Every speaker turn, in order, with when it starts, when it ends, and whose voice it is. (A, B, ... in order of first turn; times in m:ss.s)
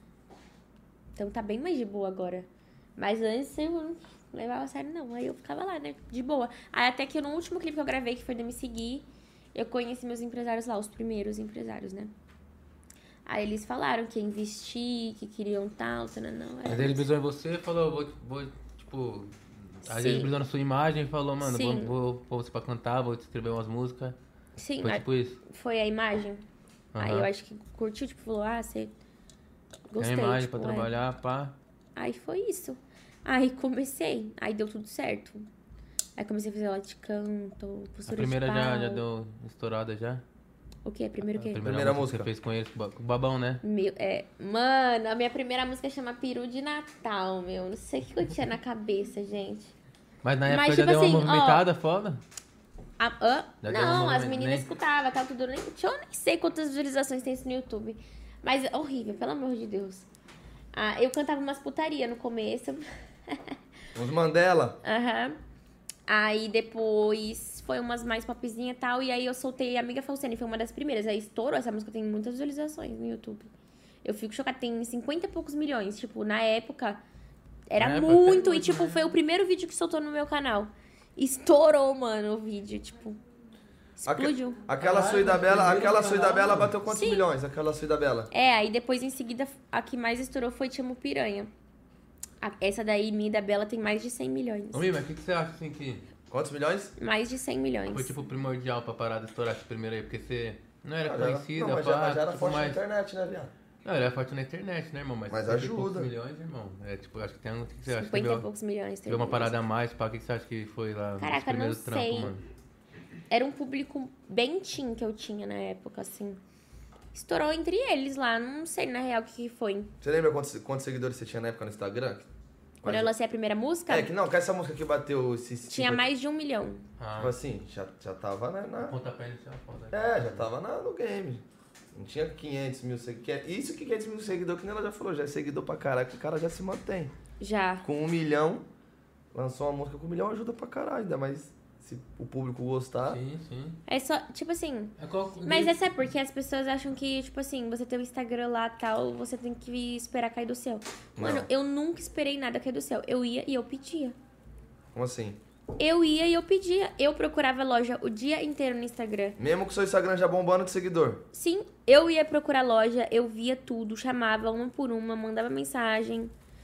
0:01.2-0:12.1 A
0:13.2-0:17.1 A
0:16.7-0:24.2 B
0:19.9-0:20.3 A
0:21.4-0:21.9 A
0:24.6-0:26.4 A
0:24.8-0:25.4 B
0:26.9-0:27.3 B
0:27.0-0:28.9 A
0:29.9-0:30.9 A
0:30.0-0:31.5 B
0:32.0-0:35.5 A
0:36.2-0:39.0 A
0:38.1-0:40.2 B
0:40.8-0:41.6 A
0:41.3-0:43.6 B
0:41.6-0:42.3 C
0:43.6-0:49.7 A
0:50.2-0:52.2 B
0:50.5-0:51.6 A
0:53.0-1:00.1 A
0:53.6-0:54.6 B
1:00.7-1:03.6 A
1:03.9-1:04.8 C
1:04.8-1:05.4 A
1:06.1-1:13.5 A
1:14.0-1:17.0 A
1:17.7-1:23.2 A
1:17.8-1:19.1 B
1:24.0-1:24.6 A
1:24.1-1:28.3 C
1:24.8-1:26.7 B
1:26.9-1:27.3 A
1:28.3-1:31.5 A
1:32.4-1:34.9 A
1:34.7-1:36.0 B
1:36.3-1:36.9 C
1:37.0-1:38.1 A
1:37.9-1:42.8 B
1:41.0-1:43.5 C
1:43.8-1:48.4 B
1:45.3-1:46.1 C
1:47.9-1:49.5 A
1:49.1-1:52.4 B
1:51.2-1:52.3 A
1:53.3-1:56.4 A
1:57.1-1:59.9 A
2:00.0-2:02.3 C
2:02.8-2:03.1 C
2:02.8-2:04.1 A
2:03.9-2:06.1 C
2:05.7-2:06.8 A
2:07.0-2:07.4 B
2:07.2-2:09.0 C
2:08.8-2:10.5 B
2:09.9-2:11.4 C
2:11.9-2:17.1 C
2:17.4-2:17.8 A
2:17.8-2:18.6 C
2:19.3-2:23.2 C
2:23.1-2:23.8 B
2:23.9-2:34.2 A
2:25.0-2:25.7 B
2:31.2-2:31.5 C
2:34.9-2:35.4 C
2:35.8-2:39.4 A
2:39.4-2:41.2 C
2:41.3-2:46.3 A